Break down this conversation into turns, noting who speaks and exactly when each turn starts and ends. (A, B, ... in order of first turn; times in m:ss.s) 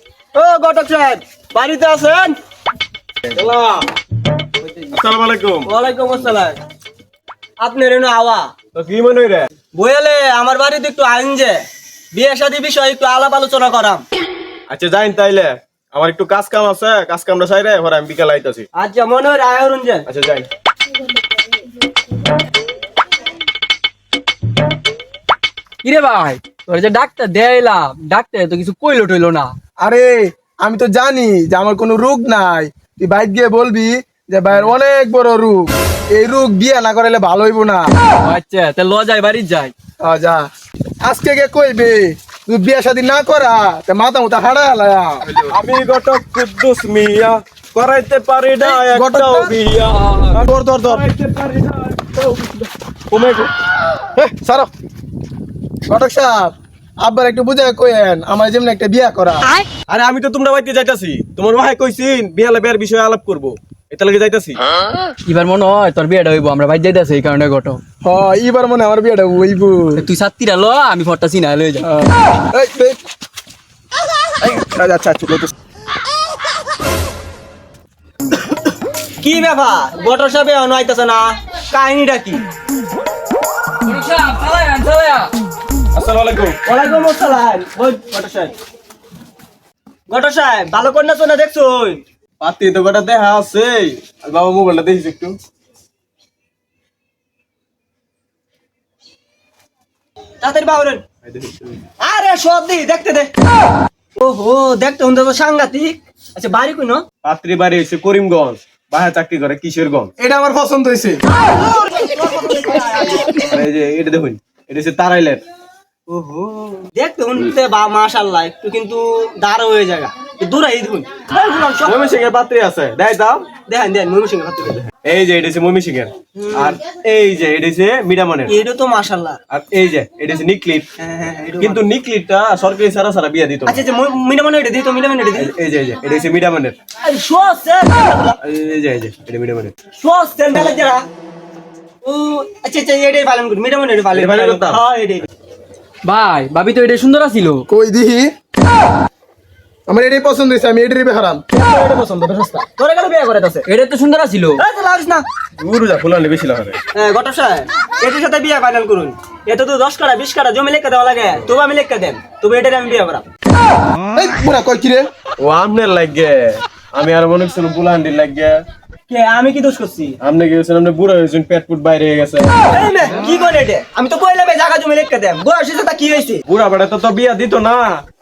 0:00.3-0:02.4 A
0:03.3-0:03.9 B
0:04.9-0:05.7 B
0:05.7-0:06.6 A
0:07.6-0:08.5 A
0:08.7-0:09.5 B
0:09.7-0:14.0 A
0:14.7-0:18.7 B
0:18.8-0:20.1 A
0:20.1-0:20.5 B
0:25.8-0:29.5 C
0:29.8-0:37.8 D
0:38.2-0:39.7 C
0:40.0-0:40.4 D
0:41.0-0:45.2 D
0:45.5-0:53.5 B
0:48.6-0:49.5 D
0:49.8-0:50.4 C
0:50.4-0:51.0 D
0:54.2-0:54.7 D
0:55.9-0:59.5 D
0:59.9-1:04.6 B
1:05.3-1:07.8 C
1:08.0-1:10.0 D
1:10.0-1:11.9 C
1:12.5-1:13.0 D
1:14.4-1:15.5 D
1:19.2-1:22.4 A
1:23.8-1:25.3 C
1:25.9-1:26.6 B
1:26.6-1:28.5 A
1:30.1-1:32.0 A
1:32.4-1:35.4 B
1:40.4-1:41.0 A
1:41.3-1:41.8 B
1:42.0-1:43.3 A
1:44.2-1:47.0 A
1:47.2-1:50.1 B
1:50.2-1:51.2 D
1:51.3-1:53.5 A
1:53.4-1:55.4 B
1:56.1-2:02.2 A
2:01.8-2:03.4 B
2:03.7-2:04.9 A
2:05.0-2:08.6 B
2:06.4-2:06.8 A
2:08.5-2:09.4 A
2:09.5-2:10.9 B
2:11.0-2:11.9 A
2:11.6-2:13.8 B
2:13.7-2:15.5 A
2:15.4-2:16.8 B
2:17.0-2:18.4 A
2:18.4-2:19.8 B
2:20.0-2:21.0 A
2:22.0-2:25.3 A
2:24.1-2:24.8 B
2:26.0-2:27.6 C
2:27.7-2:28.3 D
2:29.9-2:31.4 D
2:31.5-2:33.7 A
2:33.7-2:34.6 C
2:34.6-2:35.2 A
2:35.6-2:36.8 B
2:36.9-2:43.2 A
2:44.2-2:45.1 D
2:45.4-2:48.5 B
2:49.1-2:50.2 A
2:50.2-2:52.6 B
2:52.7-2:56.4 A
2:56.5-2:57.9 B